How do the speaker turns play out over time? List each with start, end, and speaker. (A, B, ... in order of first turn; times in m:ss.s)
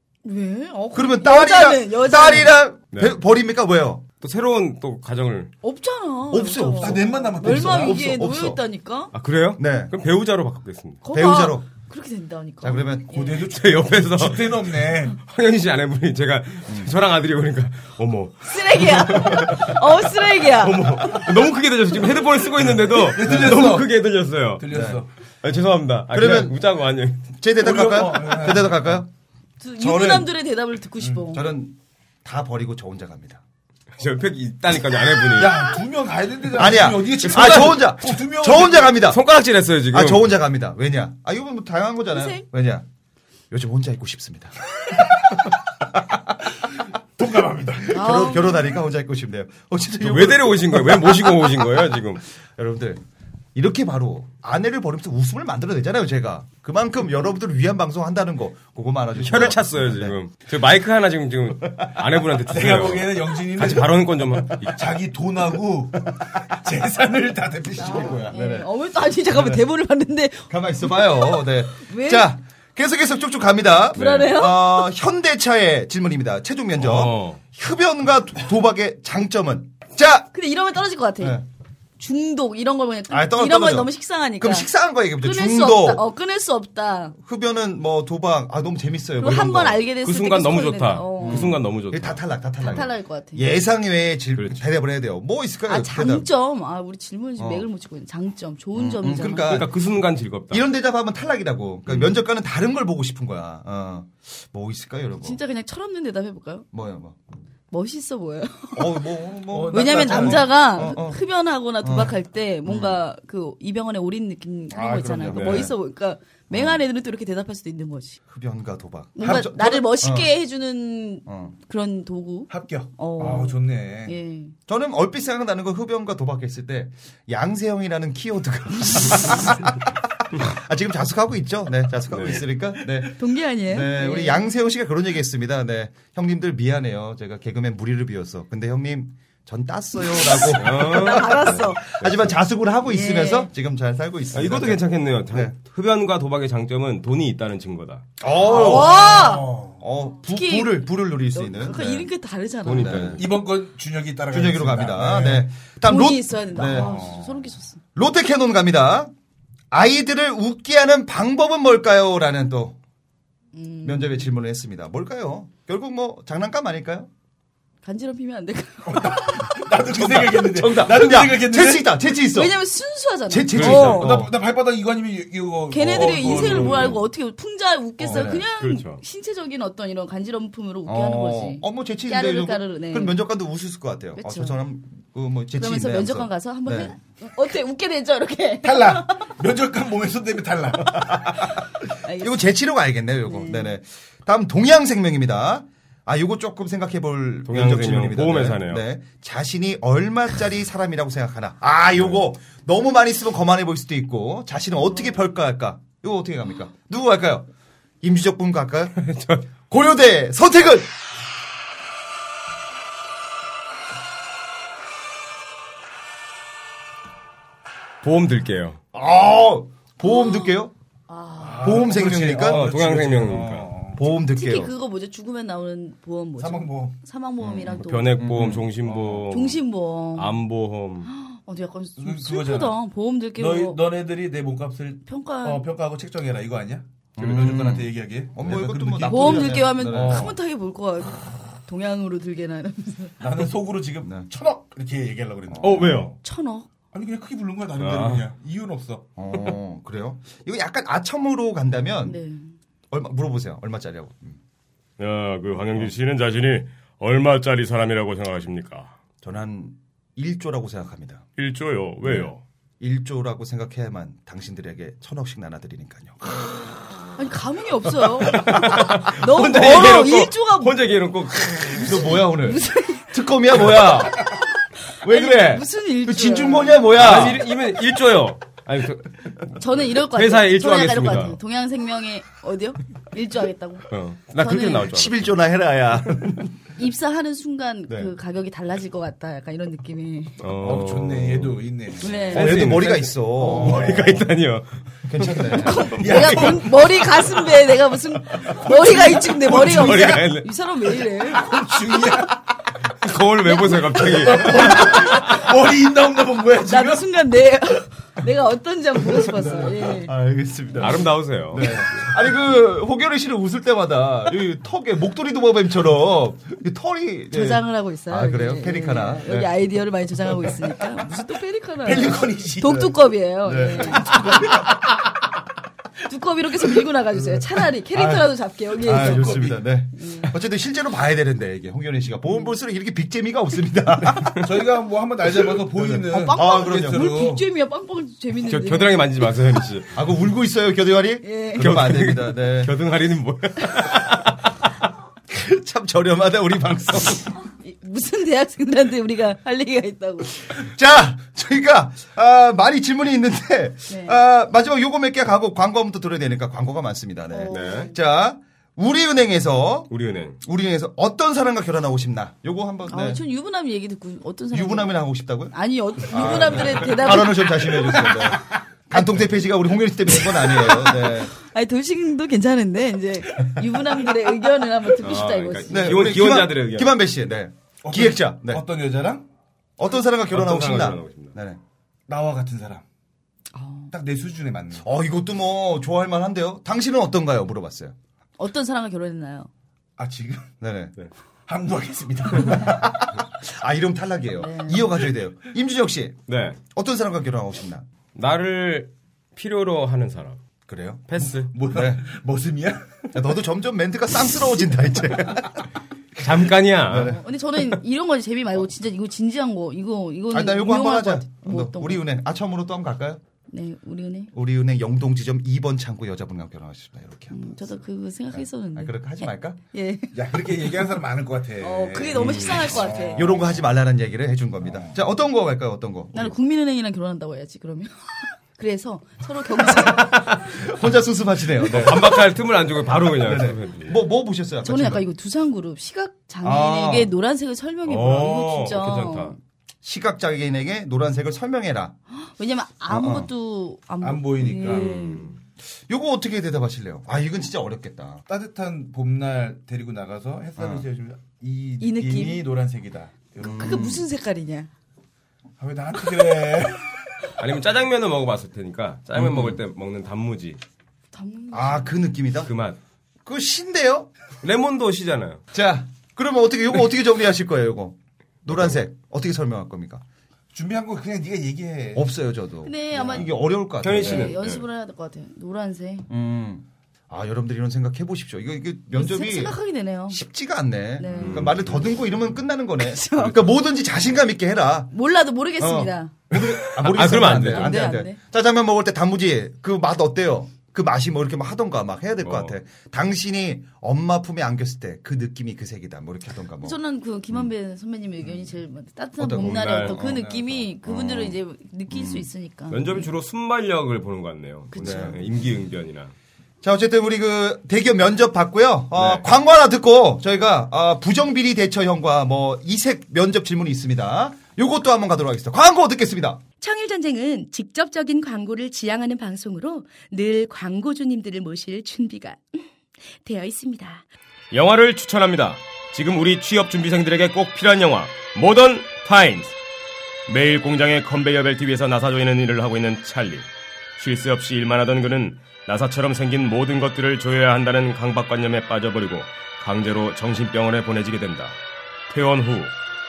0:00.2-0:02.6 A
0:00.9-0:04.0 B
0:04.2-0:05.5 C
0:05.6-0:09.1 A
0:06.3-0:08.6 B
0:06.6-0:08.0 D
0:09.1-0:11.0 C
0:09.6-0:09.9 B
0:11.0-0:13.4 A
0:11.1-0:11.7 B
0:12.6-0:13.2 B
0:13.1-0:15.2 D
0:13.5-0:19.8 C
0:16.7-0:16.9 B
0:18.5-0:21.2 A
0:20.4-0:24.6 C
0:22.9-0:24.0 D
0:23.2-0:23.7 B
0:24.6-0:25.1 D
0:24.7-0:25.0 B
0:25.4-0:27.3 C
0:26.1-0:26.6 B
0:27.4-0:29.1 B
0:27.6-0:29.0 D
0:29.6-0:31.5 A
0:29.8-0:30.3 B
0:31.3-0:33.4 B
0:34.0-0:35.7 C
0:35.4-0:39.1 D
0:36.5-0:39.2 B
0:37.2-0:37.9 C
0:39.0-0:40.4 C
0:39.9-0:42.9 B
0:42.1-0:42.4 A
0:43.5-0:45.0 B
0:47.2-0:48.0 D
0:47.9-0:51.4 B
0:47.9-0:48.6 A
0:50.0-0:52.2 C
0:52.6-0:53.0 B
0:53.6-1:00.2 B
0:59.2-1:04.9 C
1:01.7-1:02.0 B
1:02.5-1:08.4 D
1:07.8-1:12.3 A
1:07.8-1:08.7 B
1:09.3-1:09.6 B
1:10.5-1:20.3 B
1:13.9-1:14.9 A
1:14.0-1:14.4 C
1:16.8-1:17.4 C
1:20.3-1:21.4 A
1:21.2-1:21.4 B
1:22.0-1:24.7 A
1:23.1-1:26.0 B
1:25.2-1:27.2 A
1:27.2-1:29.8 B
1:29.2-1:31.6 A
1:30.0-1:32.2 C
1:31.2-1:36.3 B
1:32.6-1:33.5 A
1:34.4-1:34.6 C
1:35.7-1:39.6 A
1:37.4-1:37.7 B
1:38.8-1:39.7 B
1:39.5-1:40.6 C
1:40.5-1:45.4 B
1:45.2-1:46.7 A
1:46.7-1:47.2 B
1:47.7-1:49.1 A
1:48.8-1:51.2 B
1:49.5-1:50.6 D
1:49.7-1:58.2 A
1:51.8-1:53.0 B
1:54.8-1:55.4 D
1:54.8-1:55.7 B
1:55.3-1:55.7 C
1:56.5-1:56.8 B
1:58.3-2:00.3 B
1:59.2-2:04.5 A
1:59.2-1:59.5 D
2:01.3-2:01.6 B
2:02.5-2:04.2 D
2:04.7-2:25.5 B
2:12.1-2:12.4 C
2:13.2-2:14.4 A
2:20.0-2:21.8 A
2:20.6-2:22.4 C
2:22.9-2:23.5 A
2:24.3-2:28.1 C
2:28.2-2:32.1 B
2:28.3-2:29.8 D
2:28.4-2:29.5 A
2:30.3-2:33.2 A
2:32.6-2:33.3 C
2:32.8-2:33.2 B
2:33.2-2:35.5 D
2:34.3-2:37.1 B
2:35.9-2:37.8 A
2:36.6-2:37.4 D
2:38.0-2:39.1 B
2:39.7-2:42.8 B
2:43.5-2:44.3 A
2:43.8-2:47.1 B
2:47.8-2:49.7 A
2:48.9-2:51.9 D
2:49.9-2:52.6 B
2:52.3-2:54.2 A
2:53.3-2:54.4 B
2:53.5-2:54.1 C
2:53.7-2:57.0 D
2:55.7-3:03.2 A
2:56.3-2:56.9 B
2:56.4-2:56.9 C
2:58.0-2:58.3 D
2:58.0-2:58.4 B
2:58.6-2:59.0 C
3:00.9-3:06.9 B
3:04.2-3:04.6 A
3:05.6-3:09.3 A
3:08.6-3:11.5 D
3:10.8-3:11.4 B
3:12.0-3:12.3 A
3:12.2-3:27.5 B
3:13.2-3:13.7 A
3:17.5-3:18.8 C
3:28.0-3:29.0 B
3:29.0-3:29.5 C
3:29.7-3:30.9 B
3:38.0-3:38.8 C
3:38.9-3:40.7 B
3:40.0-3:40.6 A
3:41.1-3:41.9 A
3:41.4-3:44.0 D
3:41.6-3:42.7 B
3:42.4-3:43.7 C
3:44.0-3:44.7 B
3:44.4-3:48.2 A
3:46.4-3:47.0 D
3:47.8-3:49.6 C
3:48.2-3:48.7 B
3:48.8-3:49.3 D
3:49.3-3:50.4 A
3:50.1-3:51.1 C
3:51.1-3:53.8 A
3:52.0-3:52.8 D
3:53.4-4:00.4 D
3:55.1-3:55.7 A
3:57.2-4:00.4 B
3:59.0-4:03.2 A
4:03.2-4:06.2 D
4:04.0-4:04.3 B
4:05.5-4:06.1 B
4:05.6-4:06.2 C
4:06.2-4:06.7 A
4:06.9-4:09.1 D
4:07.8-4:08.3 C
4:09.2-4:12.2 B
4:12.0-4:12.5 A
4:12.9-4:14.4 B
4:15.0-4:18.9 C
4:19.2-4:21.2 B
4:21.4-4:22.4 C
4:22.0-4:26.6 B
4:27.2-4:30.8 A
4:28.3-4:32.0 C
4:28.4-4:30.0 B
4:31.7-4:33.1 A
4:31.7-4:34.4 B
4:34.9-4:36.9 A
4:35.0-4:37.4 B
4:37.0-4:41.4 C
4:39.6-4:44.9 A
4:43.9-4:45.3 C
4:44.8-4:46.5 B
4:46.8-4:50.4 A
4:50.4-4:51.6 C
4:50.6-4:54.2 D
4:52.0-4:52.5 A
4:52.3-4:54.0 B
4:52.3-4:56.6 C
4:55.0-4:55.9 B
4:55.3-4:56.8 D
4:55.5-5:01.7 A
4:58.4-5:00.3 D
4:59.5-5:00.5 C
5:01.2-5:02.4 D
5:03.0-5:04.9 C
5:03.8-5:07.1 D
5:04.7-5:05.4 A
5:06.6-5:10.1 A
5:09.3-5:09.8 D
5:10.0-5:19.5 B
5:10.8-5:11.7 C
5:17.3-5:24.5 A
5:21.8-5:22.9 D
5:22.6-5:24.7 B
5:23.9-5:24.7 D
5:26.1-5:30.4 A
5:27.9-5:34.6 B
5:28.8-5:29.6 D
5:34.4-5:37.4 D
5:35.5-5:37.4 B
5:36.1-5:39.3 A
5:38.4-5:39.9 C
5:39.9-5:42.7 B
5:41.2-5:41.7 A
5:41.6-5:44.4 C
5:45.3-5:47.4 B
5:47.6-5:50.4 A
5:50.5-6:03.2 B
5:53.9-5:54.2 A
5:57.3-5:58.0 A
5:57.5-5:57.9 C
5:59.9-6:00.4 C
6:02.9-6:04.9 A
6:04.5-6:11.3 B
6:05.5-6:08.4 A
6:06.1-6:06.9 C
6:10.2-6:16.0 A
6:15.0-6:17.0 C
6:15.7-6:18.6 B
6:17.8-6:19.3 D
6:19.8-6:21.6 B
6:20.3-6:21.3 C
6:22.1-6:22.8 D
6:23.5-6:23.9 A
6:23.9-6:24.9 D
6:24.8-6:28.0 B
6:28.4-6:29.5 A
6:30.0-6:30.5 D
6:30.6-6:30.9 B
6:31.5-6:32.9 D
6:32.4-6:37.8 B
6:34.4-6:34.9 A
6:36.3-6:36.6 C
6:38.2-6:40.4 C
6:40.7-6:41.0 B
6:41.1-6:41.5 C
6:41.2-6:43.2 D
6:41.7-6:42.0 B
6:43.1-6:45.7 B
6:46.2-6:47.1 C
6:46.8-6:47.2 B
6:47.0-6:52.0 A
6:50.3-6:53.2 B
6:53.5-6:54.3 A
6:54.3-6:57.7 B
6:57.3-7:00.1 A
6:58.3-6:59.6 B
7:00.1-7:03.6 D
7:01.6-7:03.3 A
7:02.2-7:02.6 C
7:03.1-7:06.4 B
7:04.6-7:05.0 D
7:06.1-7:10.2 A
7:10.0-7:10.7 C
7:10.5-7:12.3 B
7:11.6-7:14.0 C
7:13.1-7:15.1 B
7:14.6-7:19.4 A
7:16.4-7:17.1 B
7:17.9-7:19.4 C
7:19.8-7:22.0 B
7:22.1-7:25.4 A
7:22.9-7:23.3 B
7:24.0-7:24.9 D
7:24.6-7:25.4 C
7:25.9-7:28.2 B
7:28.3-7:33.9 D
7:30.6-7:30.9 B
7:31.8-7:32.5 A
7:33.4-7:34.0 B
7:33.6-7:34.7 A
7:35.6-7:37.3 D
7:37.4-7:40.6 C
7:39.2-7:39.6 B
7:41.1-7:42.0 A
7:41.5-7:42.5 B
7:42.4-7:42.8 C
7:43.3-7:44.1 B
7:44.4-7:45.4 C
7:45.5-7:50.0 B
7:50.5-7:52.1 D
7:51.9-7:54.4 B
7:52.6-7:53.3 A
7:53.8-7:54.6 C
7:53.8-7:56.1 A
7:56.1-7:59.6 B
7:58.9-8:00.2 A
8:00.1-8:04.9 B
8:01.0-8:01.5 A
8:01.2-8:02.0 C
8:02.8-8:03.4 A
8:04.9-8:06.1 A
8:05.6-8:16.8 B
8:06.3-8:07.9 C
8:07.0-8:08.2 A
8:12.2-8:12.5 C
8:16.6-8:23.1 A
8:19.2-8:20.3 B
8:19.4-8:20.0 C
8:20.0-8:20.6 D
8:20.8-8:21.4 B
8:21.9-8:22.3 B
8:22.7-8:26.1 C
8:24.7-8:25.2 A
8:24.8-8:25.2 B
8:26.6-8:36.4 B
8:29.0-8:29.2 C
8:36.6-8:42.4 E
8:43.2-8:44.0 E
8:44.5-8:49.5 C
8:50.3-9:01.6 C
9:02.1-9:02.8 C